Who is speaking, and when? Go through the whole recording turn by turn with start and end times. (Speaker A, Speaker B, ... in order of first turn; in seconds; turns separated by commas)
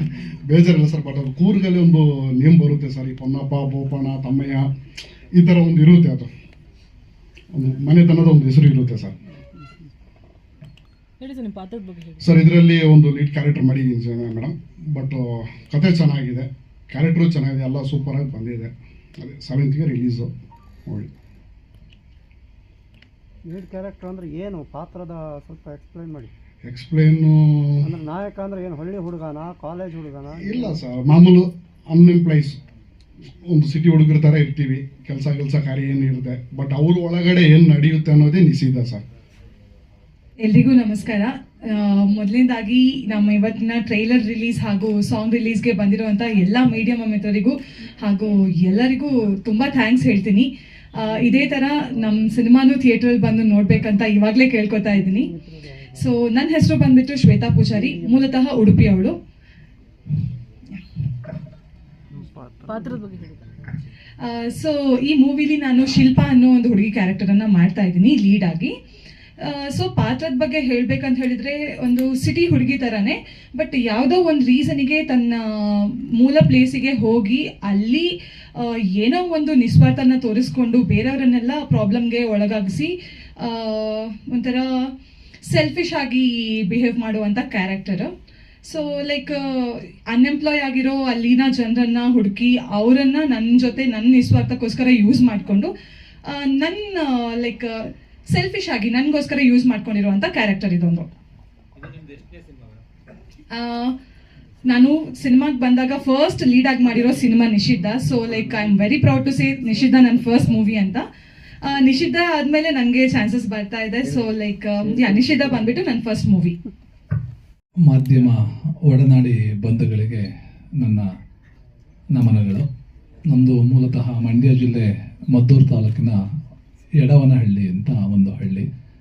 Speaker A: 0.5-4.7, Speaker A: 5.3-6.3, Speaker A: 7.5-9.1, Speaker B: 11.2-12.5, Speaker A: 12.2-20.3, Speaker C: 23.4-26.3, Speaker A: 26.6-27.7, Speaker C: 27.8-30.8, Speaker A: 30.7-32.6, Speaker A: 33.5-39.0, Speaker D: 40.4-55.3, Speaker C: 51.1-51.6, Speaker C: 54.9-56.0, Speaker D: 56.0-59.1, Speaker C: 57.8-58.3, Speaker C: 62.1-62.9, Speaker B: 62.6-63.5, Speaker D: 64.2-68.7, Speaker D: 69.4-84.9, Speaker D: 85.5-88.1, Speaker D: 88.6-95.7, Speaker D: 96.2-101.1, Speaker D: 103.5-103.9, Speaker D: 104.6-111.1, Speaker D: 111.6-116.5, Speaker E: 117.8-120.2, Speaker E: 120.8-121.1, Speaker E: 122.1-122.7, Speaker E: 123.3-126.2, Speaker E: 127.0-128.7